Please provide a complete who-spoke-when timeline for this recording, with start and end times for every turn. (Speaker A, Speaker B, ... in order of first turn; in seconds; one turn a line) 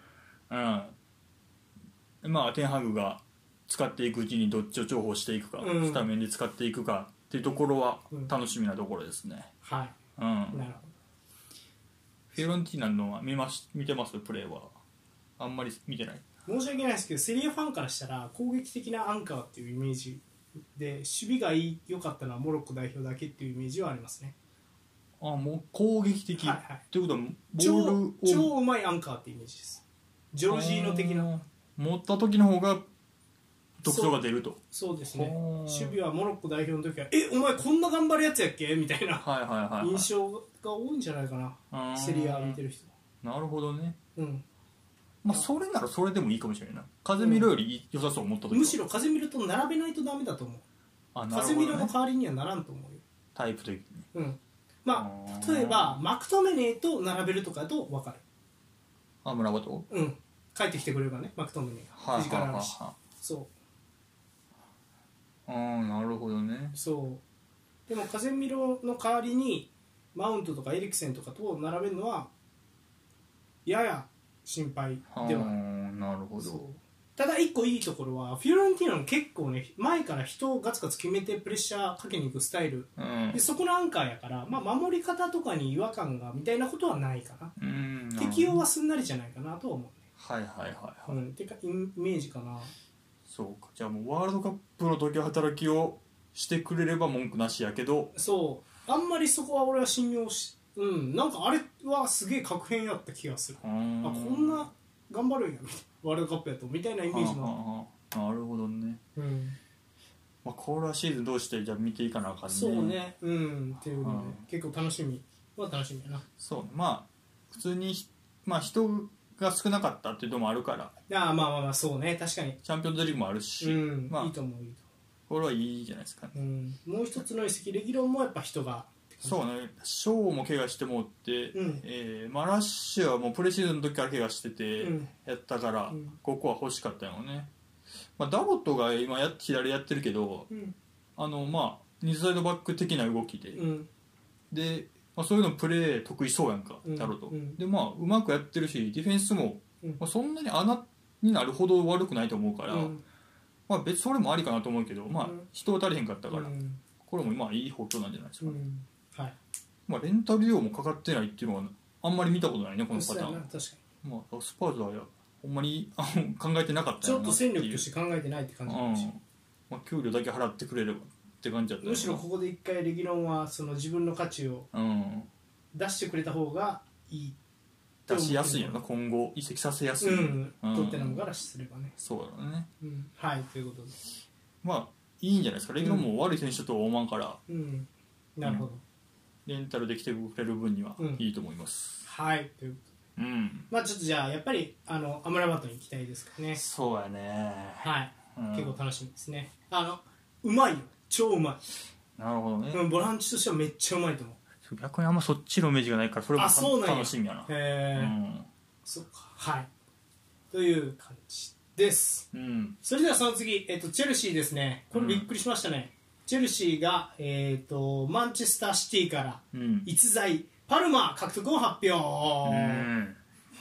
Speaker A: 0.5-0.9
Speaker A: 2.2-9.5
Speaker B: 5.6-6.1
Speaker B: 9.6-9.9
Speaker A: 10.2-10.7
Speaker B: 10.5-10.9
Speaker A: 12.3-14.7
Speaker A: 15.4-16.2
Speaker B: 16.4-24.3
Speaker A: 25.2-28.5
Speaker B: 26.4-26.8
Speaker B: 27.6-31.3
Speaker A: 30.5-32.8
Speaker A: 33.8-34.6
Speaker B: 33.9-34.1
Speaker B: 34.7-39.2
Speaker A: 35.1-36.0
Speaker A: 39.2-40.1
Speaker B: 39.8-42.9
Speaker A: 41.7-42.6
Speaker A: 43.2-44.0
Speaker B: 44.1-44.4
Speaker A: 45.2-48.8
Speaker B: 47.2-47.5
Speaker B: 48.5-50.6
Speaker A: 51.1-51.9
Speaker B: 51.3-53.0
Speaker A: 53.3-54.1
Speaker B: 54.1-58.2
Speaker A: 54.9-56.0
Speaker A: 59.2-59.9
Speaker B: 59.9-63.5
Speaker A: 61.9-63.0
Speaker A: 65.5-66.8
Speaker B: 66.7-67.2
Speaker B: 67.9-72.3
Speaker B: 73.7-75.5
Speaker A: 75.1-76.6
Speaker B: 76.4-87.5
Speaker A: 83.0-83.4
Speaker A: 87.6-88.6
Speaker B: 88.2-90.0
Speaker A: 90.2-91.2
Speaker B: 91.1-92.7
Speaker A: 93.3-98.1
Speaker B: 98.1-107.5
Speaker A: 103.6-104.7
Speaker A: 107.1-109.0
Speaker B: 109.2-109.6
Speaker A: 110.4-113.0
Speaker B: 112.5-116.2
Speaker A: 114.0-114.4
Speaker A: 116.4-120.9
Speaker B: 121.1-122.6
Speaker A: 122.6-124.3
Speaker B: 123.6-124.8
Speaker A: 125.3-126.3
Speaker B: 126.3-129.4
Speaker A: 129.2-137.5
Speaker B: 131.5-131.8
Speaker B: 134.8-135.1
Speaker B: 135.9-136.2
Speaker A: 138.2-140.5
Speaker A: 141.2-143.6
Speaker B: 143.5-143.9
Speaker A: 144.5-152.9
Speaker B: 146.8-147.6
Speaker B: 152.7-153.0
Speaker A: 153.7-158.6
Speaker B: 156.3-156.8
Speaker B: 158.4-159.3
Speaker A: 159.9-163.4
Speaker B: 162.9-163.8
Speaker A: 164.0-167.8
Speaker B: 167.0-169.1
Speaker A: 168.7-172.2
Speaker B: 171.8-174.7
Speaker A: 174.7-175.3
Speaker B: 175.7-177.3
Speaker A: 178.1-181.2
Speaker B: 178.1-178.8
Speaker B: 180.0-181.9
Speaker A: 182.0-182.7
Speaker B: 182.8-184.0
Speaker A: 184.6-187.4
Speaker B: 185.8-186.1
Speaker B: 187.5-188.8
Speaker A: 189.4-192.0
Speaker B: 192.0-192.9
Speaker A: 193.2-193.7
Speaker B: 193.7-196.6
Speaker A: 196.5-198.8
Speaker B: 197.8-201.6
Speaker A: 202.2-202.8
Speaker B: 202.7-204.4
Speaker A: 204.6-208.5
Speaker B: 206.3-208.1
Speaker B: 208.8-209.7
Speaker B: 210.5-212.3
Speaker A: 212.3-212.8
Speaker B: 212.8-222.9
Speaker A: 214.9-215.3
Speaker A: 219.5-219.9
Speaker A: 222.4-223.2